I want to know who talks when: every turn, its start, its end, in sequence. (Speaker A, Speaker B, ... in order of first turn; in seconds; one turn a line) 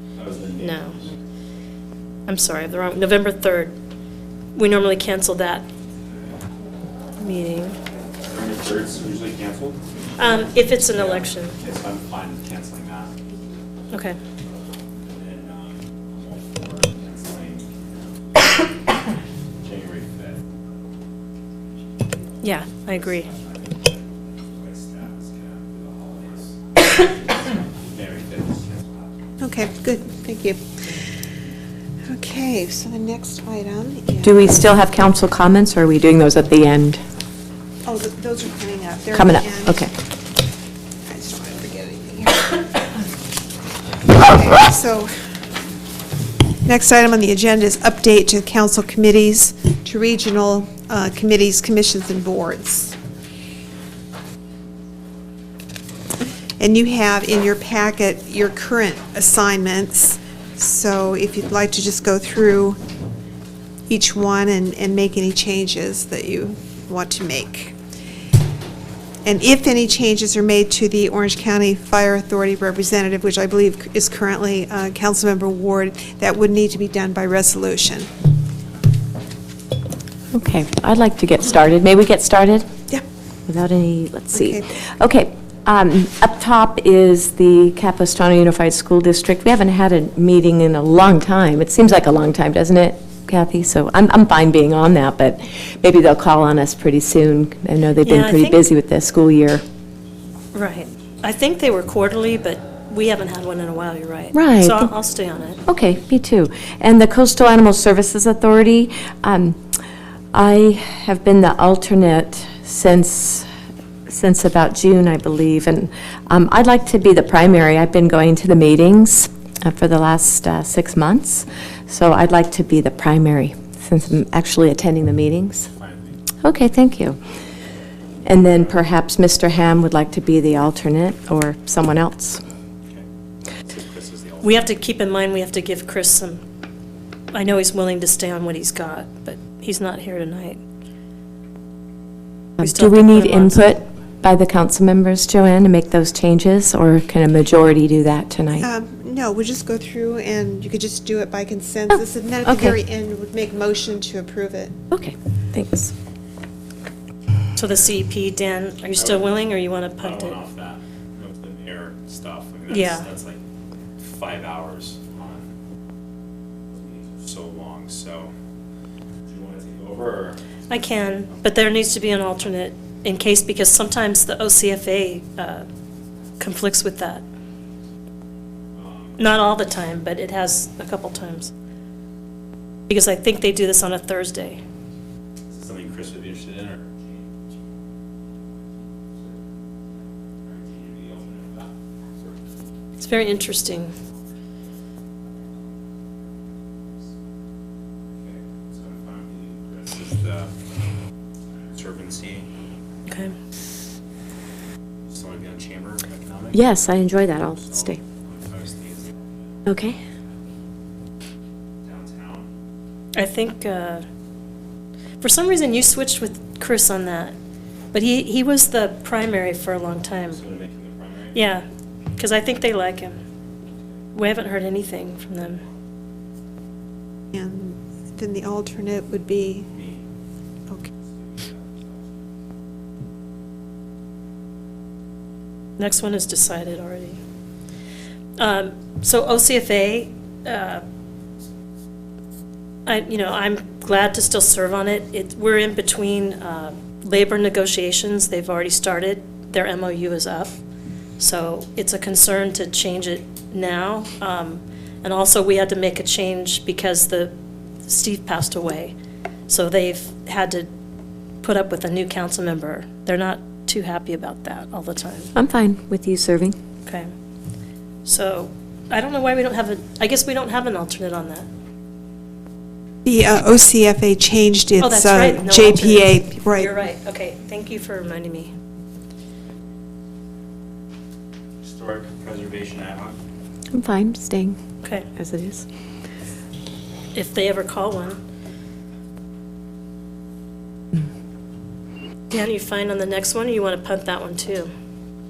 Speaker A: 0.1-1.2
Speaker B: 0.6-1.0
Speaker B: 2.3-3.7
Speaker B: 4.5-5.7
Speaker B: 7.2-7.8
Speaker A: 8.3-9.8
Speaker B: 10.2-11.6
Speaker A: 10.8-13.1
Speaker B: 13.9-14.2
Speaker A: 15.0-18.9
Speaker A: 19.6-20.6
Speaker A: 22.4-29.1
Speaker B: 22.4-23.3
Speaker C: 29.4-30.6
Speaker C: 32.1-34.5
Speaker D: 34.2-37.0
Speaker C: 37.8-39.8
Speaker D: 39.1-39.9
Speaker C: 41.1-42.8
Speaker C: 44.1-45.1
Speaker C: 46.6-53.0
Speaker C: 56.6-62.8
Speaker C: 63.9-67.8
Speaker C: 69.2-78.1
Speaker D: 80.3-82.7
Speaker D: 83.5-99.6
Speaker C: 84.3-84.6
Speaker B: 98.0-98.6
Speaker B: 100.5-105.6
Speaker D: 104.3-104.9
Speaker D: 105.7-109.6
Speaker D: 110.3-113.5
Speaker D: 114.1-125.7
Speaker A: 125.7-126.2
Speaker D: 126.4-127.2
Speaker D: 128.2-132.4
Speaker A: 133.6-134.7
Speaker B: 134.4-136.4
Speaker B: 137.3-140.6
Speaker D: 142.6-148.7
Speaker B: 142.6-143.7
Speaker C: 148.6-154.8
Speaker D: 151.9-152.8
Speaker D: 154.9-155.9
Speaker B: 157.6-160.4
Speaker A: 159.0-159.3
Speaker A: 160.0-163.4
Speaker B: 162.7-163.1
Speaker A: 164.0-165.5
Speaker A: 166.7-168.3
Speaker A: 169.3-170.4
Speaker B: 170.7-175.7
Speaker B: 176.4-177.2
Speaker A: 178.8-179.2
Speaker B: 179.2-181.5
Speaker B: 182.9-184.6
Speaker A: 185.5-187.6
Speaker A: 190.4-192.4
Speaker B: 193.0-193.9
Speaker A: 198.2-200.5
Speaker A: 201.7-202.5
Speaker B: 203.1-203.3
Speaker A: 205.1-206.6
Speaker D: 206.5-208.0
Speaker A: 207.7-209.6
Speaker D: 209.7-210.0
Speaker A: 211.8-212.5
Speaker B: 213.1-214.1
Speaker B: 215.2-217.3
Speaker B: 217.9-220.4
Speaker A: 220.3-221.4
Speaker B: 221.3-221.7
Speaker B: 222.2-223.2
Speaker B: 224.1-225.6
Speaker C: 227.3-229.7
Speaker A: 229.7-230.0
Speaker A: 231.1-232.0
Speaker B: 235.8-237.2
Speaker B: 238.4-240.8
Speaker B: 242.9-250.6
Speaker B: 251.2-257.3
Speaker B: 257.9-258.9
Speaker B: 259.5-260.7
Speaker B: 261.4-265.3
Speaker D: 265.3-266.6
Speaker B: 266.9-267.1
Speaker B: 268.1-271.5
Speaker C: 273.1-276.7
Speaker B: 274.8-278.5
Speaker A: 281.6-283.2
Speaker D: 283.7-284.6
Speaker B: 284.8-285.1
Speaker D: 285.1-285.7
Speaker B: 287.1-288.2
Speaker B: 292.3-294.7